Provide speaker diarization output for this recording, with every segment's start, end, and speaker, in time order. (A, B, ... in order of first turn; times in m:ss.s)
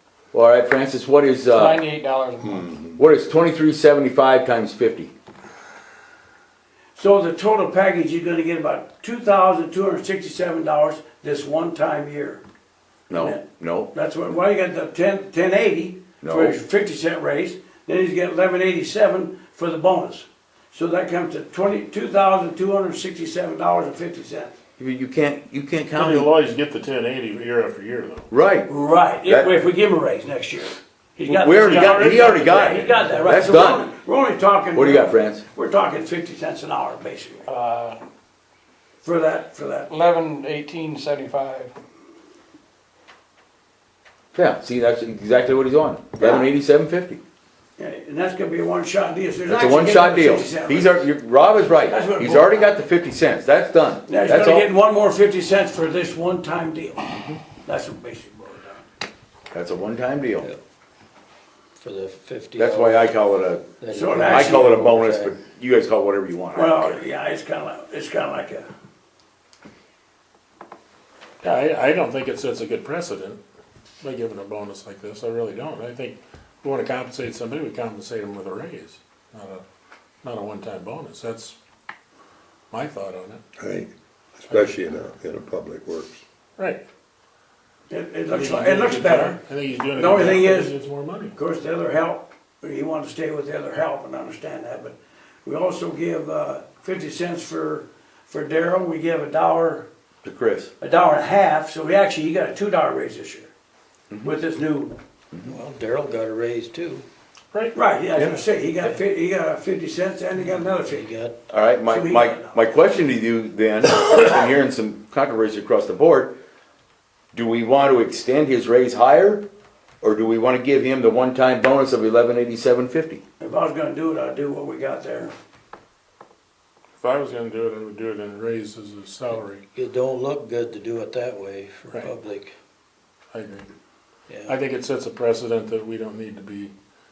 0:00.3-0:01.8 A
0:01.6-0:02.7 B
0:02.4-0:03.0 C
0:02.9-0:05.1 A
0:07.0-0:12.4 D
0:13.1-0:13.9 A
0:13.1-0:24.6 D
0:16.2-0:16.6 A
0:24.8-0:26.3 A
0:26.0-0:28.3 E
0:28.3-0:28.7 A
0:28.7-0:37.5 D
0:29.2-0:29.6 A
0:31.4-0:33.9 A
0:31.6-0:33.1 E
0:34.7-0:35.4 A
0:37.5-0:38.0 B
0:39.0-0:39.9 D
0:39.9-0:41.7 B
0:44.3-0:47.2 A
0:46.2-0:46.5 D
0:47.8-0:51.1 D
0:49.5-0:54.7 A
0:51.8-0:52.8 D
0:54.1-0:58.9 D
0:57.1-0:57.4 A
0:59.5-1:00.5 A
1:01.8-1:03.2 F
1:02.6-1:03.8 A
1:03.8-1:05.4 F
1:03.9-1:04.7 D
1:04.3-1:07.0 A
1:06.5-1:08.7 D
1:11.4-1:13.4 E
1:14.0-1:19.6 E
1:20.2-1:21.6 E
1:22.7-1:23.4 E
1:23.6-1:26.2 C
1:26.6-1:26.8 E
1:27.9-1:29.4 D
1:28.3-1:31.4 E
1:30.0-1:30.7 D
1:31.4-1:39.9 D
1:40.2-1:40.7 A
1:40.8-1:43.5 D
1:44.1-1:44.4 A
1:44.2-1:45.0 D
1:45.3-1:45.6 A
1:45.5-1:47.0 F
1:47.7-1:51.1 D
1:50.7-1:51.4 F
1:51.5-1:56.4 A
1:51.9-1:52.6 D
1:57.3-1:59.5 A
2:00.0-2:03.2 A
2:03.4-2:05.3 D
2:07.0-2:09.6 E
2:09.3-2:12.6 F
2:13.3-2:13.7 E
2:14.3-2:14.6 F
2:14.5-2:16.7 E